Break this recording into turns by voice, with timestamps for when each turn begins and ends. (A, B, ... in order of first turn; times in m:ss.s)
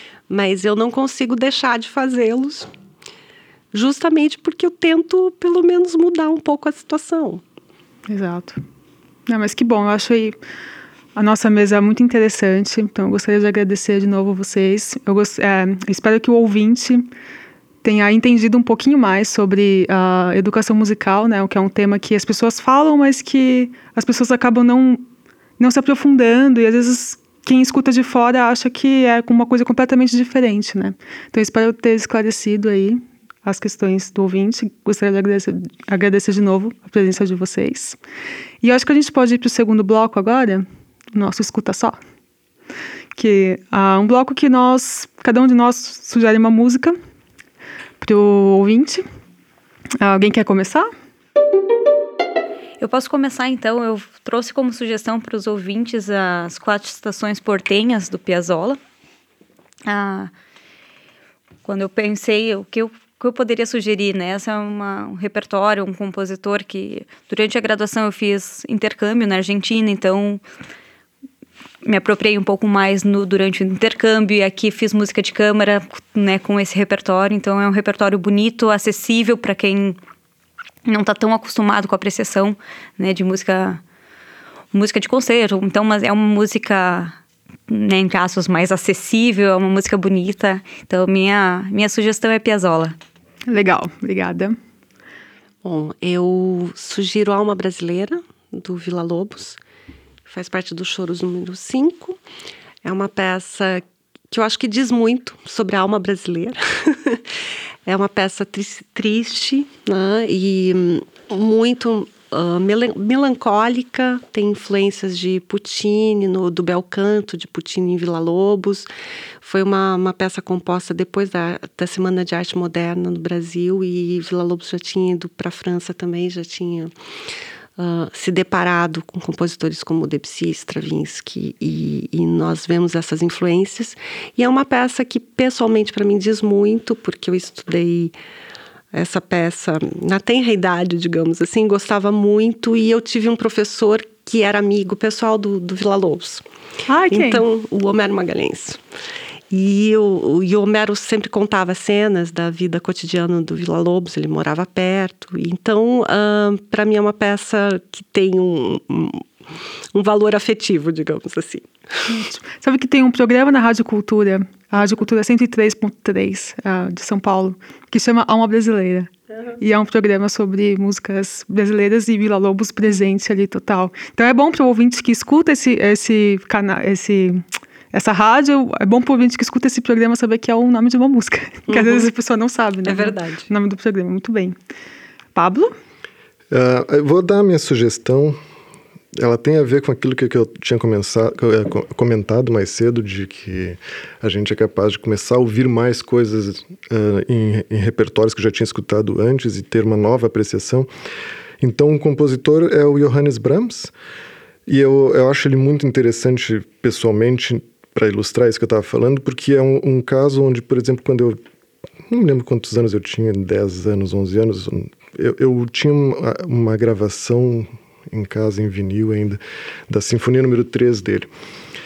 0:00.3-0:02.7 A
0:03.7-0:07.4 A
0:08.1-0:08.6 B
0:09.3-0:10.4 B
0:11.2-0:17.1 B
0:17.8-0:25.0 B
0:25.6-0:38.0 B
0:38.6-0:42.0 B
0:43.2-0:47.0 B
0:48.0-0:49.0 B
0:50.0-0:50.9 B
0:52.8-0:58.8 C
0:59.9-1:00.3 C
1:01.6-1:10.4 C
1:11.8-1:20.0 C
1:20.8-1:23.8 C
1:24.7-1:27.1 C
1:27.7-1:33.0 C
1:33.5-1:34.6 B
1:35.6-1:39.6 A
1:40.3-1:42.2 A
1:42.8-1:47.3 A
1:47.9-1:58.9 A
1:59.4-2:06.9 A
2:07.8-2:18.2 A
2:18.9-2:26.4 A
2:26.9-2:27.4 B
2:27.1-2:28.8 A
2:29.5-2:39.2 A
2:39.9-2:42.0 A
2:42.1-3:04.6 B
3:01.7-3:02.1 A
3:02.9-3:03.5 A
3:05.3-3:05.7 B
3:06.5-3:08.4 D
3:09.2-3:20.9 D
3:21.6-3:23.9 D
3:24.7-3:31.4 D
3:32.1-3:41.3 D